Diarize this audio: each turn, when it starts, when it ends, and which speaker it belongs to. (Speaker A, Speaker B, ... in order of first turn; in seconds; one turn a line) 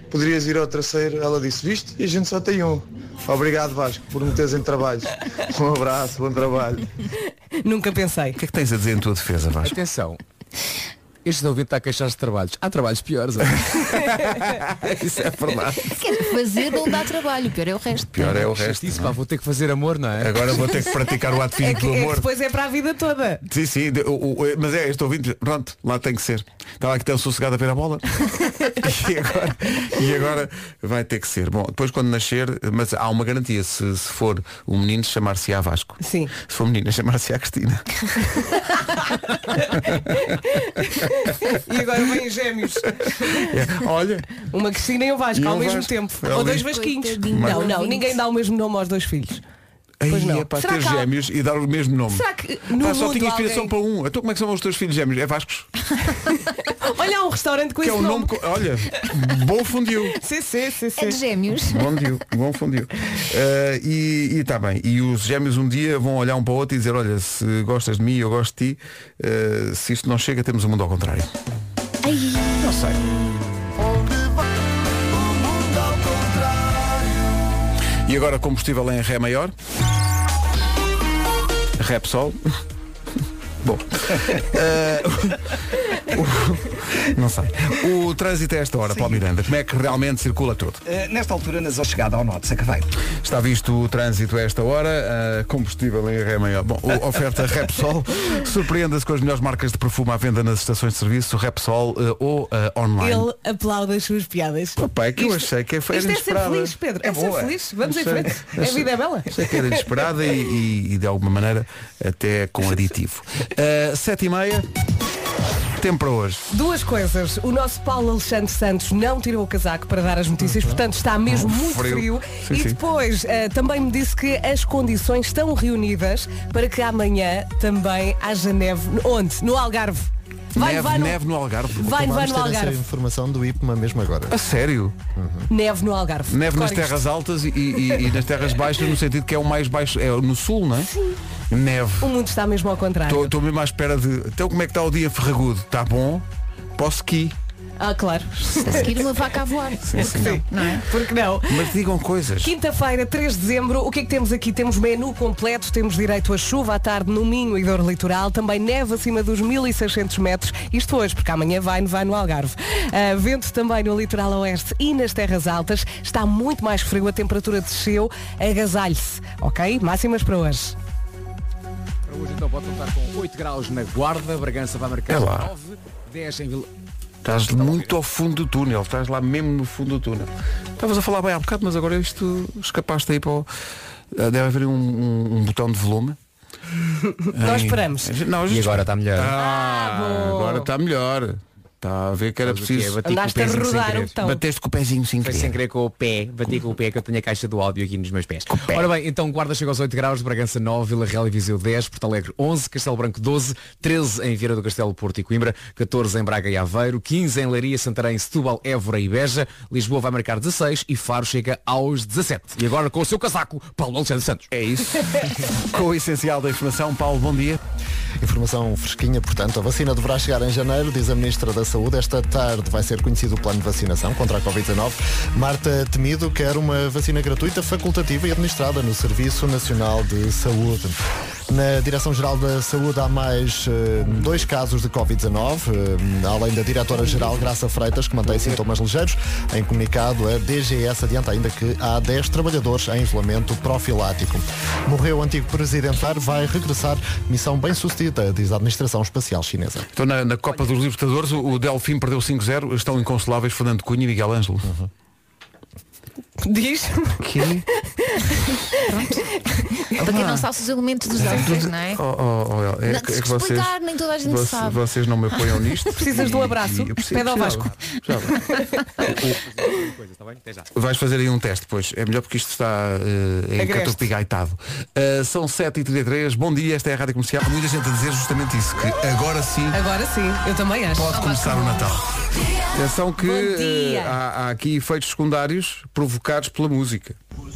Speaker A: 0.1-6.9
Speaker B: 7.6-8.4
Speaker C: 8.3-9.8
Speaker D: 9.6-10.2
Speaker D: 11.2-13.7
Speaker C: 13.9-14.5
Speaker D: 14.8-15.7
Speaker C: 15.2-15.8
Speaker E: 15.9-18.5
Speaker C: 18.1-19.1
Speaker D: 18.5-20.4
Speaker C: 20.2-22.2
Speaker B: 21.6-23.4
Speaker C: 23.5-28.0
Speaker C: 28.8-37.9
Speaker B: 36.0-36.3
Speaker C: 39.5-40.3
Speaker B: 40.5-43.4
Speaker C: 41.0-41.3
Speaker C: 42.9-44.3
Speaker B: 44.5-49.4
Speaker C: 45.4-46.7
Speaker E: 46.3-48.2
Speaker C: 47.3-47.7
Speaker C: 50.0-52.2
Speaker B: 50.1-51.1
Speaker B: 52.1-53.7
Speaker C: 52.8-55.7
Speaker B: 56.8-58.3
Speaker C: 57.8-60.2
Speaker B: 60.2-61.2
Speaker E: 61.0-61.9
Speaker C: 61.7-71.3
Speaker C: 72.4-73.1
Speaker A: 75.9-76.2
Speaker C: 78.1-79.5
Speaker C: 81.8-82.4
Speaker C: 83.6-90.8
Speaker F: 90.9-92.9
Speaker C: 93.2-103.3
Speaker B: 103.0-109.8
Speaker C: 104.8-114.7
Speaker C: 115.8-116.5
Speaker B: 116.5-131.2
Speaker C: 120.5-122.8
Speaker C: 130.5-132.1
Speaker B: 131.8-132.8
Speaker G: 131.8-134.3
Speaker C: 134.3-134.9
Speaker G: 135.2-135.5
Speaker B: 135.5-137.0
Speaker C: 136.3-140.9
Speaker C: 141.5-142.1
Speaker B: 142.0-143.3
Speaker C: 143.1-146.2
Speaker C: 146.8-147.3
Speaker B: 147.8-149.1
Speaker C: 148.4-148.9
Speaker E: 148.6-150.8
Speaker C: 149.8-150.4
Speaker B: 150.0-151.7
Speaker C: 151.5-152.5
Speaker B: 152.4-170.7
Speaker D: 172.1-176.7
Speaker C: 175.1-175.5
Speaker C: 177.2-183.5
Speaker D: 177.3-178.0
Speaker C: 184.1-186.2
Speaker C: 187.3-193.0
Speaker B: 187.4-188.1
Speaker D: 188.5-189.3
Speaker B: 189.4-190.7
Speaker D: 192.4-194.1
Speaker B: 193.0-194.4
Speaker C: 194.2-195.6
Speaker D: 195.2-214.5
Speaker C: 198.5-198.8
Speaker C: 214.5-217.6
Speaker G: 218.2-231.0
Speaker G: 231.5-249.8
Speaker C: 249.9-254.7
Speaker B: 256.4-257.2
Speaker C: 257.2-257.7
Speaker B: 257.8-258.5
Speaker E: 258.9-259.3
Speaker E: 259.9-262.0
Speaker C: 260.1-260.5
Speaker C: 261.2-268.4
Speaker E: 262.9-264.8
Speaker B: 265.9-267.7
Speaker C: 269.0-269.4
Speaker D: 269.4-270.7
Speaker C: 270.7-279.8
Speaker B: 273.6-274.1
Speaker B: 279.7-281.1
Speaker C: 280.9-282.0
Speaker E: 281.1-281.9
Speaker C: 282.7-287.1
Speaker B: 283.2-284.2